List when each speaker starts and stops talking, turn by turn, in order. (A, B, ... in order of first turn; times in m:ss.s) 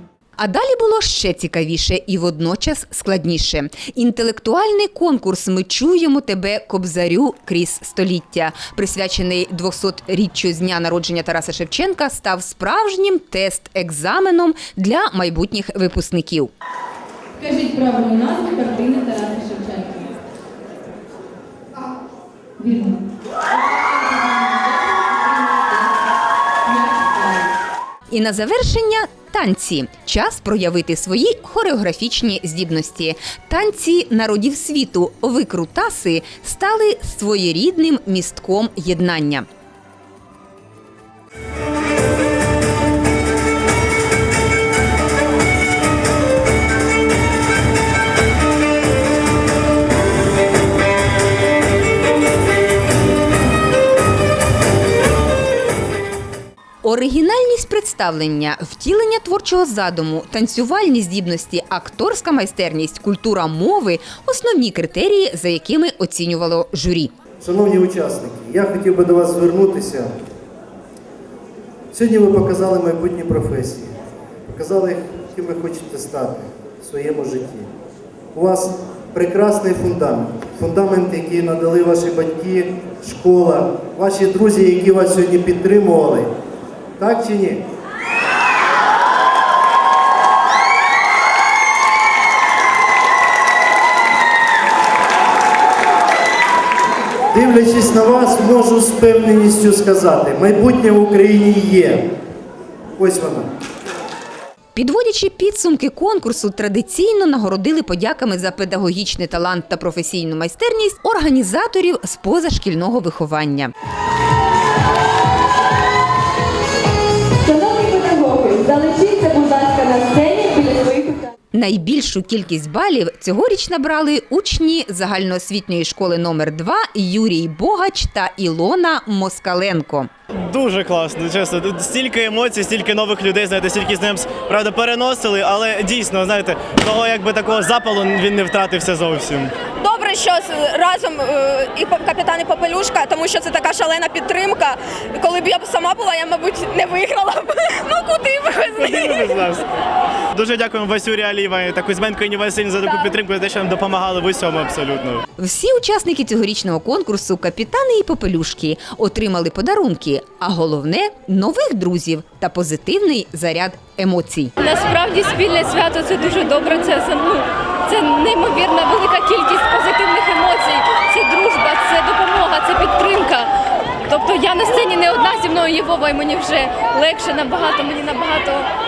0:00.4-0:16.5 A
0:17.4-0:17.7 B
0:17.7-0:19.0 C
0:18.7-0:20.1 B
0:19.6-0:20.0 C
0:22.7-0:23.0 C
0:23.7-0:25.9 C
0:25.2-0:25.6 B
0:26.9-0:27.5 C
0:28.1-0:39.5 A
0:56.8-1:07.1 A
1:07.4-1:10.1 D
1:11.9-1:13.9 D
1:14.5-1:17.7 D
1:18.3-1:26.3 D
1:27.0-1:27.6 D
1:37.3-1:42.0 D
1:43.0-1:43.5 D
1:44.8-1:53.7 A
1:57.4-2:01.3 B
1:58.3-1:58.8 C
2:01.5-2:10.1 A
2:10.3-2:19.5 E
2:19.8-2:28.8 F
2:28.7-2:29.6 E
2:30.3-2:35.2 E
2:35.4-2:44.5 A
2:44.6-2:53.5 B
2:54.0-2:58.7 B